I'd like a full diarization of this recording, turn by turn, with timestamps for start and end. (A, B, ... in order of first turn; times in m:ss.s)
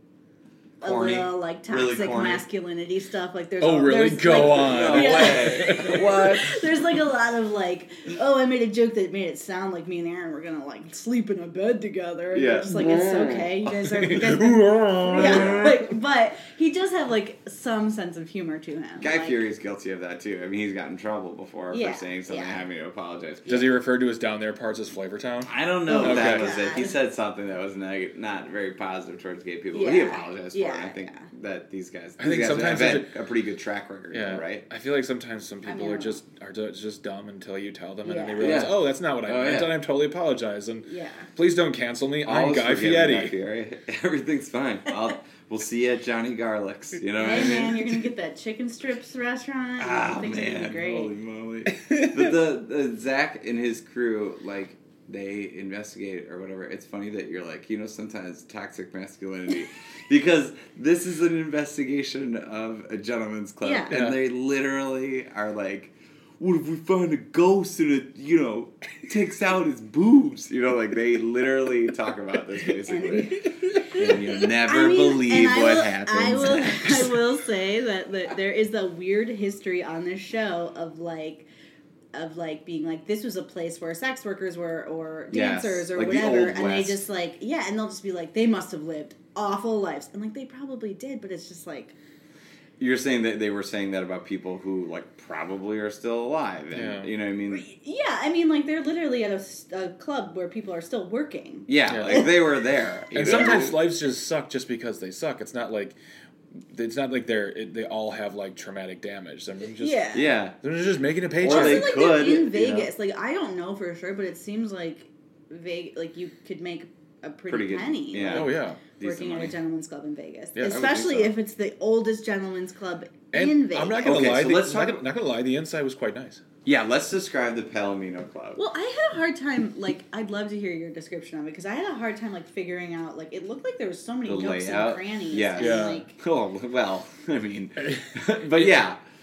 0:00.8-0:02.4 A
0:00.8-0:19.4 B
0:03.6-0:06.3 C
0:04.3-0:06.6 A
0:12.3-0:13.5 A
0:13.8-0:15.7 C
0:15.0-0:15.8 A
0:19.0-0:23.8 A
0:21.7-0:22.6 B
0:23.5-0:26.5 C
0:25.4-0:34.6 A
0:25.9-0:27.0 B
0:29.7-0:31.3 B
0:32.2-0:33.1 C
0:34.1-0:43.3 C
0:35.6-0:36.2 B
0:38.0-0:38.6 B
0:38.4-0:39.8 A
0:40.9-0:41.3 B
0:42.2-0:48.0 A
0:47.2-0:51.1 B
0:49.8-1:17.3 A
0:51.7-0:52.3 C
1:03.6-1:04.0 B
1:03.9-1:04.2 C
1:12.9-1:21.5 B
1:22.1-1:31.9 B
1:25.3-1:27.0 A
1:32.8-1:37.6 A
1:36.7-1:37.1 C
1:37.5-1:42.3 B
1:41.7-1:43.8 A
1:41.9-1:42.3 C
1:43.1-1:46.0 C
1:46.7-1:51.9 C
1:49.7-1:50.3 B
1:50.1-1:50.6 A
1:51.4-1:52.9 A
1:51.4-2:04.3 B
1:57.5-1:59.6 A
1:58.2-1:58.8 C
2:00.6-2:01.4 A
2:03.3-2:06.4 C
2:04.0-2:05.0 A
2:06.6-2:08.6 A
2:08.6-2:16.1 B
2:14.2-2:19.0 A
2:15.6-2:16.0 C
2:17.8-2:18.8 C